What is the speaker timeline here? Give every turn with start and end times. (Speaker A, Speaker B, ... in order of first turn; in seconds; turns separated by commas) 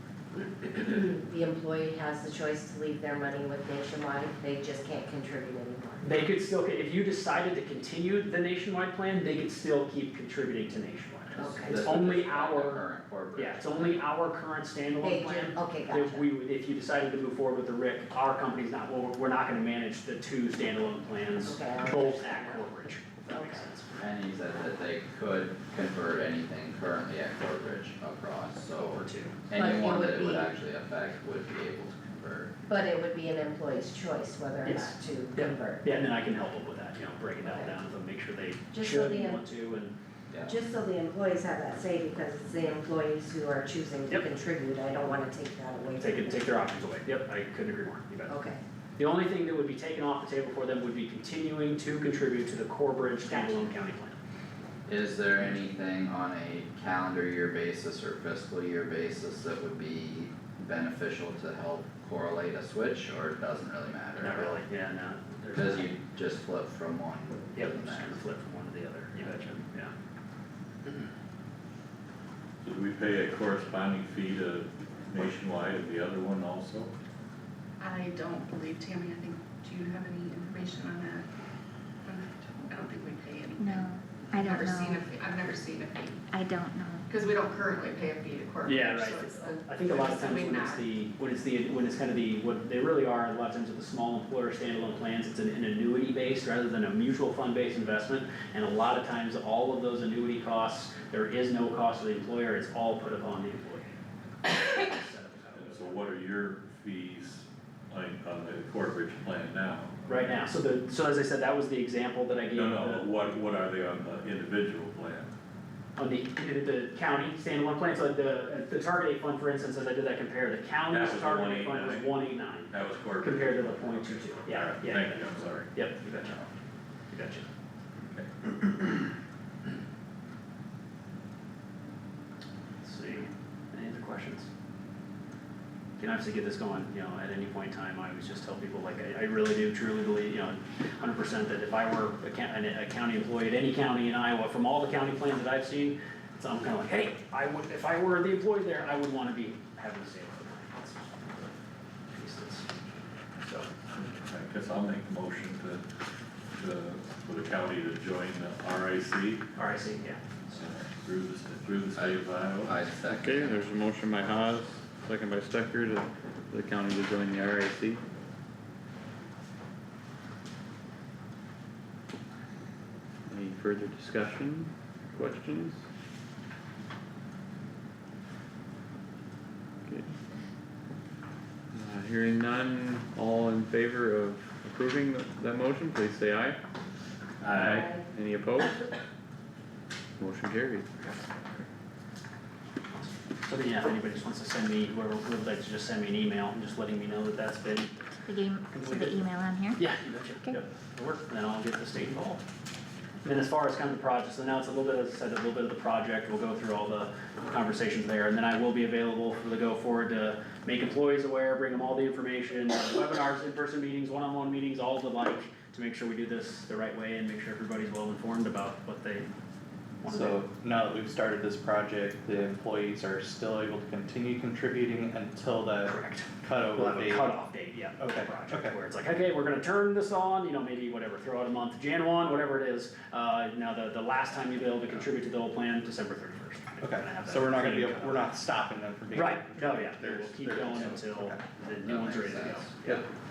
Speaker A: 0.6-6.2, Speaker B: 6.0-12.8, Speaker A: 11.4-11.8, Speaker C: 11.6-14.1, Speaker B: 13.3-23.9, Speaker A: 15.0-16.2, Speaker A: 21.4-22.8, Speaker A: 23.3-23.6, Speaker C: 23.9-32.5, Speaker B: 28.7-29.3, Speaker A: 29.5-30.6, Speaker A: 32.7-35.8, Speaker B: 34.6-39.9, Speaker A: 37.4-37.7, Speaker A: 38.7-39.4, Speaker C: 40.3-40.5, Speaker A: 40.5-46.5, Speaker B: 46.0-48.3, Speaker A: 48.3-48.6, Speaker B: 49.0-54.2, Speaker A: 53.2-53.7, Speaker C: 54.9-64.6, Speaker B: 64.2-65.9, Speaker C: 65.5-68.2, Speaker B: 67.5-69.9, Speaker D: 72.6-76.9, Speaker E: 77.8-81.3, Speaker E: 82.0-86.3, Speaker F: 83.6-85.0, Speaker F: 86.3-87.1, Speaker E: 87.1-91.0, Speaker B: 88.6-106.0, Speaker D: 105.5-110.4, Speaker B: 110.1-113.0, Speaker D: 112.5-115.3, Speaker B: 116.0-126.4, Speaker D: 120.9-125.7, Speaker B: 127.1-127.5, Speaker D: 128.1-129.1, Speaker B: 132.8-134.5, Speaker B: 136.0-151.5, Speaker B: 152.1-152.7, Speaker B: 153.4-153.7, Speaker D: 153.9-155.8, Speaker D: 156.5-159.4, Speaker B: 159.6-160.5, Speaker D: 160.5-162.8, Speaker C: 161.9-163.7, Speaker G: 163.1-168.0, Speaker G: 173.3-175.8, Speaker G: 181.7-186.6, Speaker D: 187.4-187.9, Speaker G: 187.7-188.8, Speaker G: 190.2-190.9, Speaker B: 192.9-197.9, Speaker F: 198.2-199.9, Speaker B: 198.7-199.2, Speaker B: 199.8-202.4, Speaker B: 203.2-219.3, Speaker B: 220.0-220.4, Speaker H: 220.1-227.3, Speaker B: 225.8-238.2, Speaker H: 228.0-228.7, Speaker H: 236.8-241.4, Speaker B: 239.1-243.0, Speaker C: 241.8-242.7